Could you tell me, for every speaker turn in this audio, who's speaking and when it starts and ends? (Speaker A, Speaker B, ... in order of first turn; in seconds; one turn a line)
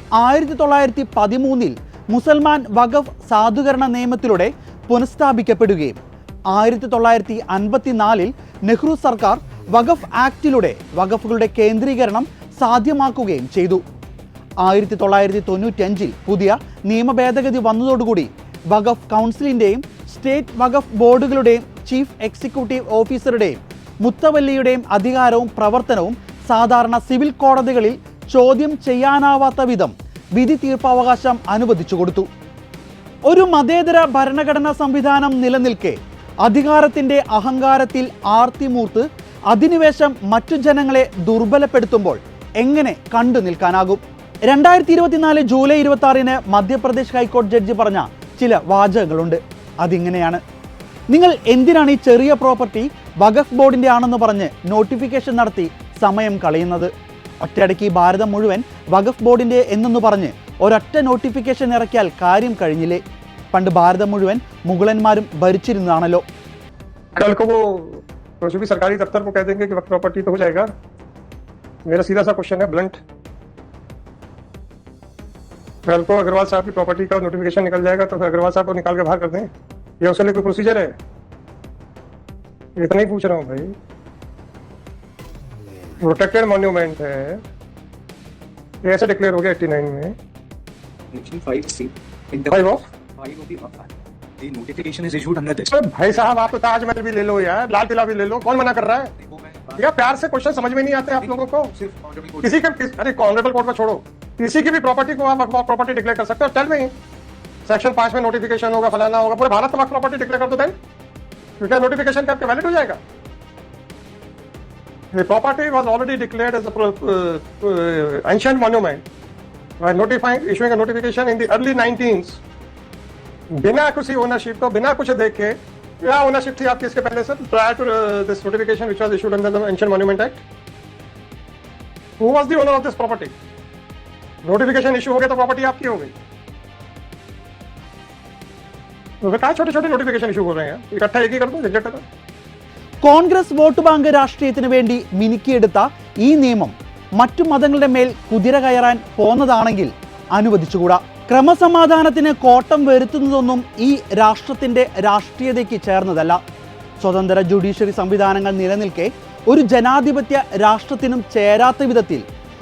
Speaker A: 0.2-6.0
Speaker A: 6.5-13.8
Speaker A: 14.6-32.3
Speaker A: 33.3-50.4
Speaker A: 51.1-56.9
Speaker A: 57.4-63.0
Speaker A: 63.5-66.2
Speaker B: 67.1-70.7
Speaker B: 71.8-73.0
Speaker B: 75.8-79.5
Speaker B: 80.0-81.0
Speaker B: 82.8-83.7
Speaker B: 86.0-87.4
Speaker B: 88.8-90.2
Speaker C: 91.1-92.3
Speaker B: 92.3-92.8
Speaker C: 93.2-93.9
Speaker C: 94.4-95.6
Speaker B: 95.6-99.1
Speaker B: 99.7-106.9
Speaker B: 107.7-110.7
Speaker B: 111.6-113.0
Speaker B: 115.1-119.0
Speaker B: 119.8-122.4
Speaker B: 123.6-130.4
Speaker B: 132.2-133.3
Speaker B: 134.4-136.1
Speaker B: 139.2-142.0
Speaker A: 143.0-156.4
Speaker A: 157.0-162.2